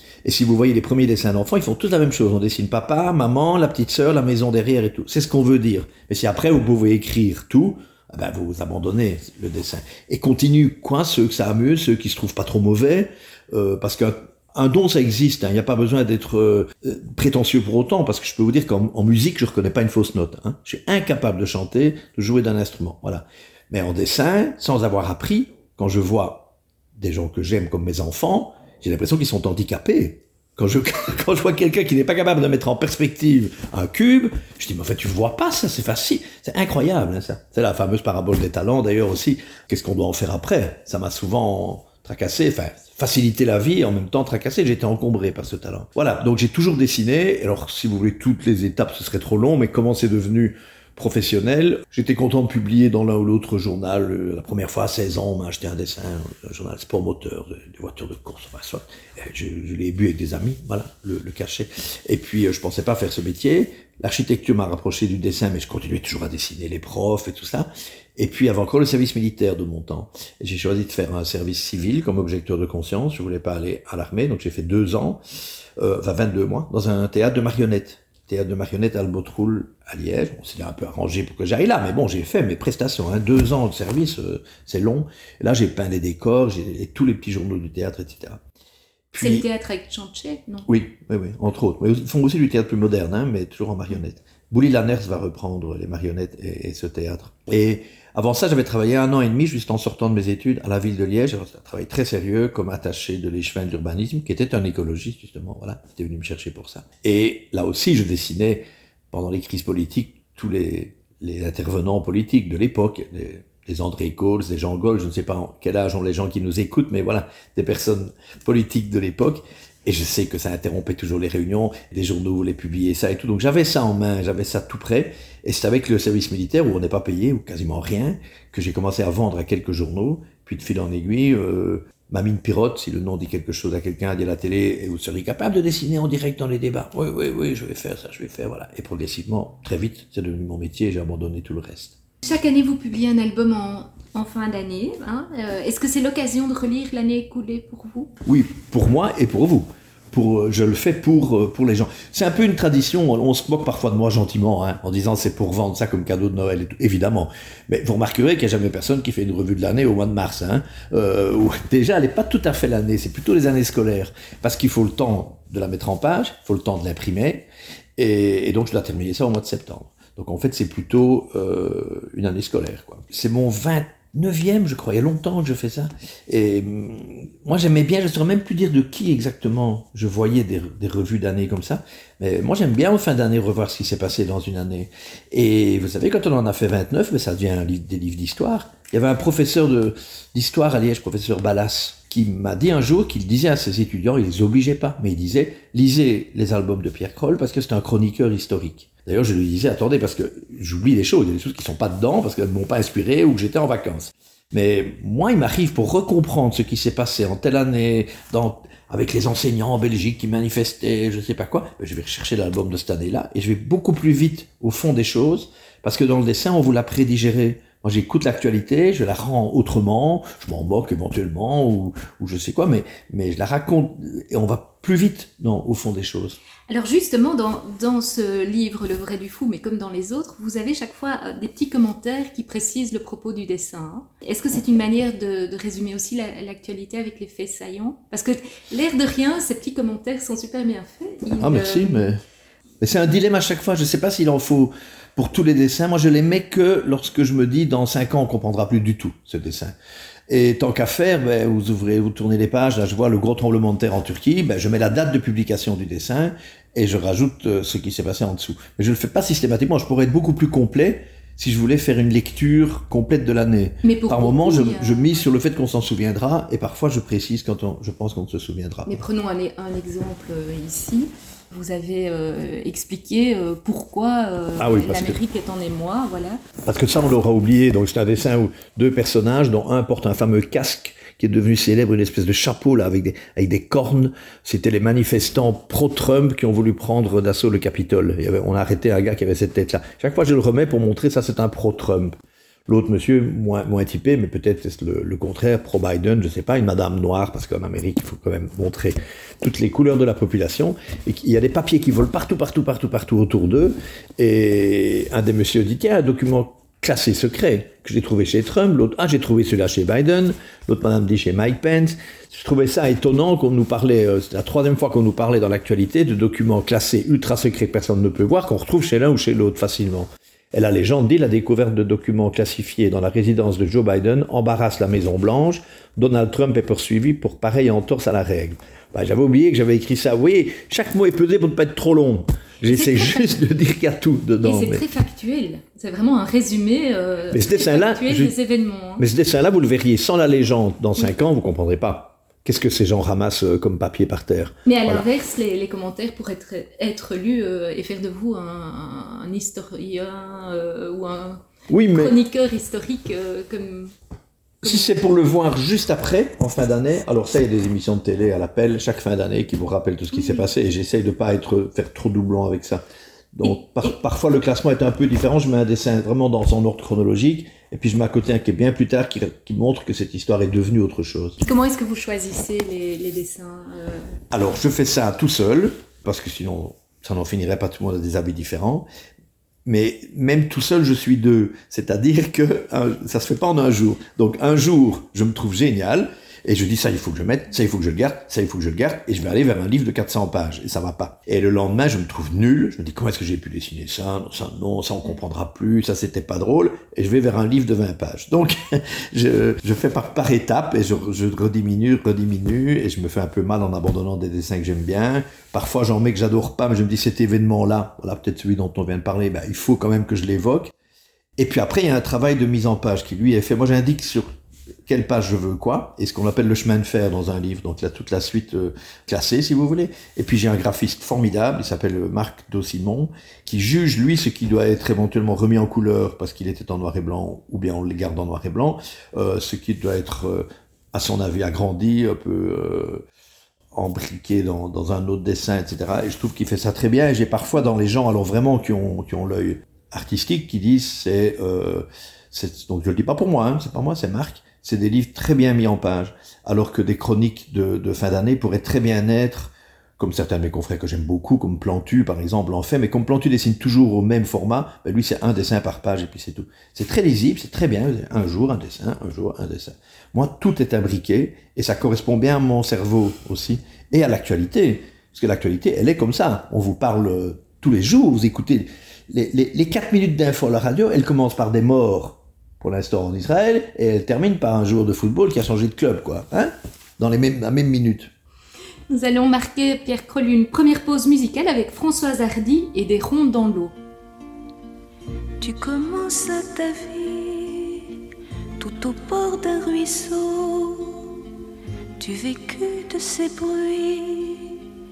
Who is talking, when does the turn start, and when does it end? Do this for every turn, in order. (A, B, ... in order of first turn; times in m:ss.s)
0:00.2-1:15.2 A
1:15.8-1:28.4 A
1:29.1-1:29.5 A
1:29.2-1:30.7 B
1:30.7-2:22.0 A
2:22.2-2:28.1 B
2:28.2-3:46.4 A
3:46.7-4:02.1 B
4:01.4-4:02.2 A
4:02.8-4:09.7 A
4:10.3-4:29.0 A
4:23.8-4:25.2 B
4:28.9-4:36.4 B
4:34.6-4:35.2 A
4:36.6-4:52.2 A
4:52.7-5:34.9 A
5:32.7-5:33.4 B
5:34.4-5:39.0 B
5:37.3-5:38.4 A
5:39.0-5:45.0 A
5:44.7-5:53.9 B
5:51.7-5:52.2 A
5:54.6-6:02.8 A
5:54.7-5:54.9 B
6:00.1-6:00.5 B
6:03.3-6:11.4 A
6:11.4-6:14.2 B
6:14.3-6:18.9 A
6:19.6-6:50.7 A
6:51.4-6:54.3 A
6:54.9-7:13.0 A
7:13.7-7:58.1 A
7:58.9-8:03.8 B
8:05.4-8:08.0 C
8:08.6-8:11.2 C
8:12.0-8:14.6 C